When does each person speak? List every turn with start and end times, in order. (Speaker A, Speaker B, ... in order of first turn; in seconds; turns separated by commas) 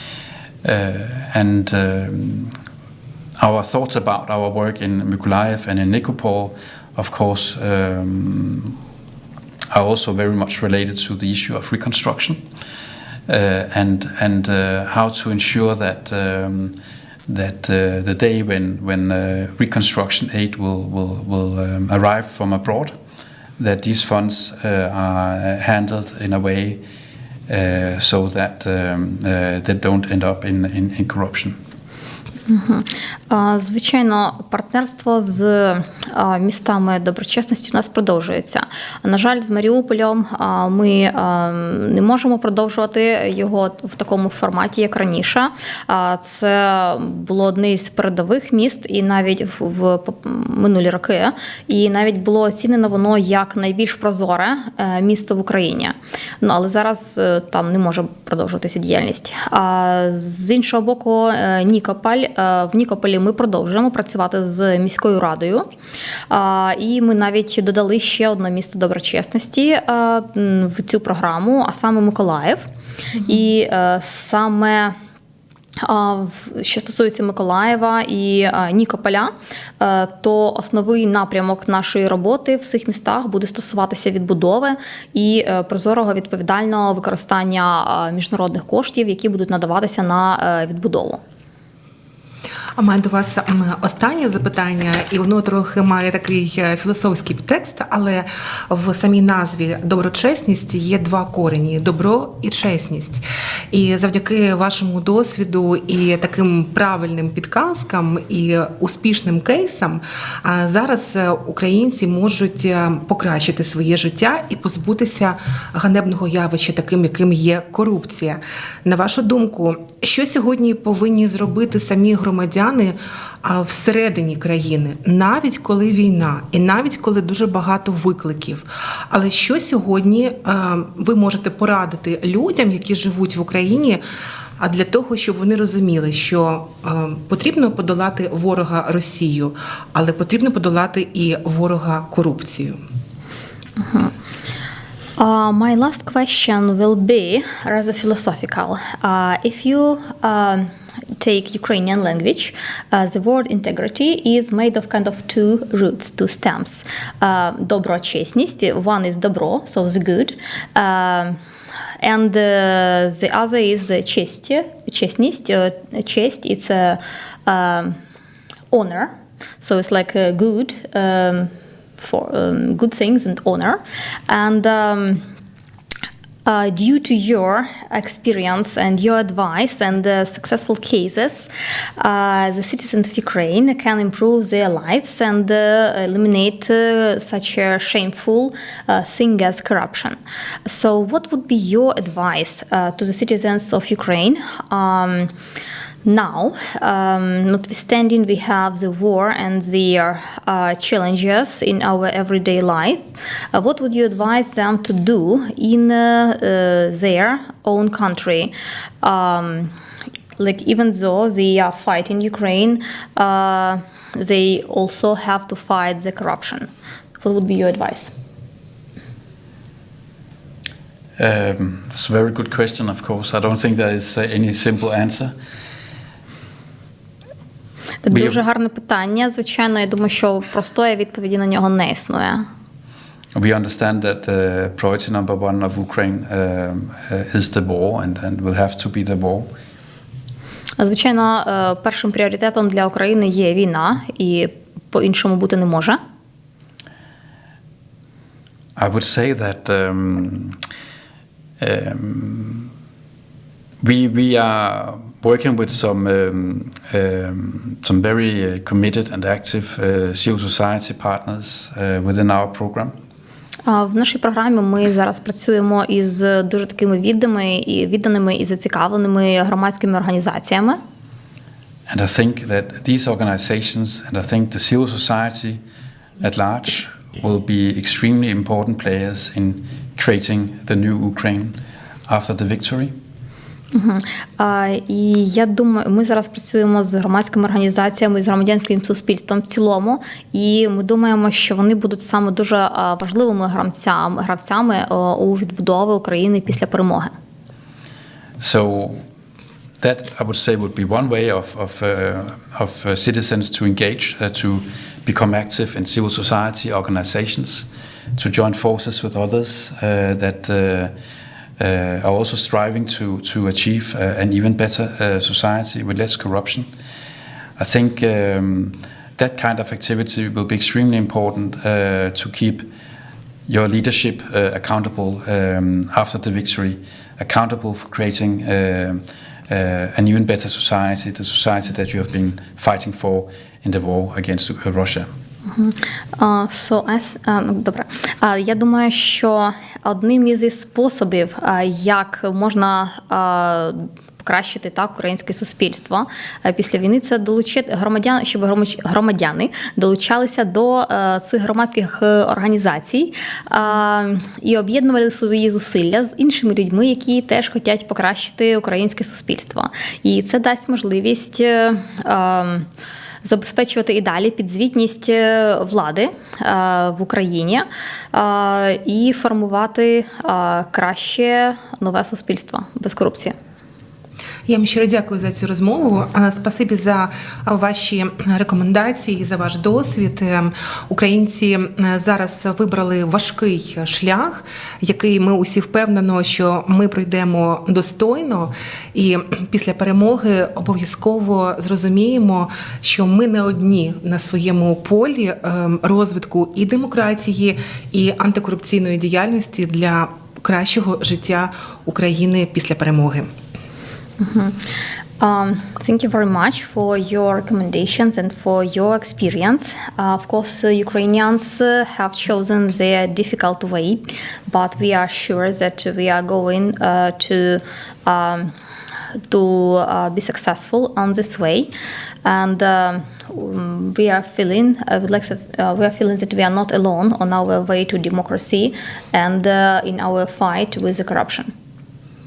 Speaker A: 0.6-2.6, Speaker A: 3.4-8.8, Speaker A: 9.7-12.4, Speaker A: 13.3-22.9, Speaker A: 23.6-26.8, Speaker A: 27.5-31.6, Speaker B: 32.5-65.7, Speaker B: 66.3-72.7, Speaker B: 73.2-75.0, Speaker B: 75.8-91.2, Speaker C: 92.8-134.0, Speaker C: 134.6-142.8, Speaker B: 143.8-144.1, Speaker B: 145.2-161.4, Speaker B: 162.0-168.0, Speaker B: 168.7-175.3, Speaker B: 176.5-195.3, Speaker B: 196.1-209.7, Speaker B: 210.4-216.7, Speaker B: 217.2-218.1, Speaker A: 221.2-225.3, Speaker B: 228.0-232.5, Speaker A: 228.1-228.4, Speaker A: 233.3-239.5, Speaker B: 240.8-246.0, Speaker A: 248.8-250.6, Speaker A: 251.6-252.7, Speaker A: 253.8-262.9, Speaker B: 263.6-270.8, Speaker A: 271.9-275.6, Speaker A: 276.2-282.9, Speaker B: 283.7-297.1, Speaker A: 298.4-299.0, Speaker A: 299.8-310.9, Speaker A: 311.6-316.7, Speaker A: 317.6-322.7, Speaker A: 323.5-335.1, Speaker B: 335.5-362.7, Speaker B: 363.2-373.4, Speaker C: 374.5-403.3, Speaker B: 404.2-404.6, Speaker B: 405.2-418.5, Speaker B: 419.3-421.7, Speaker B: 422.2-431.5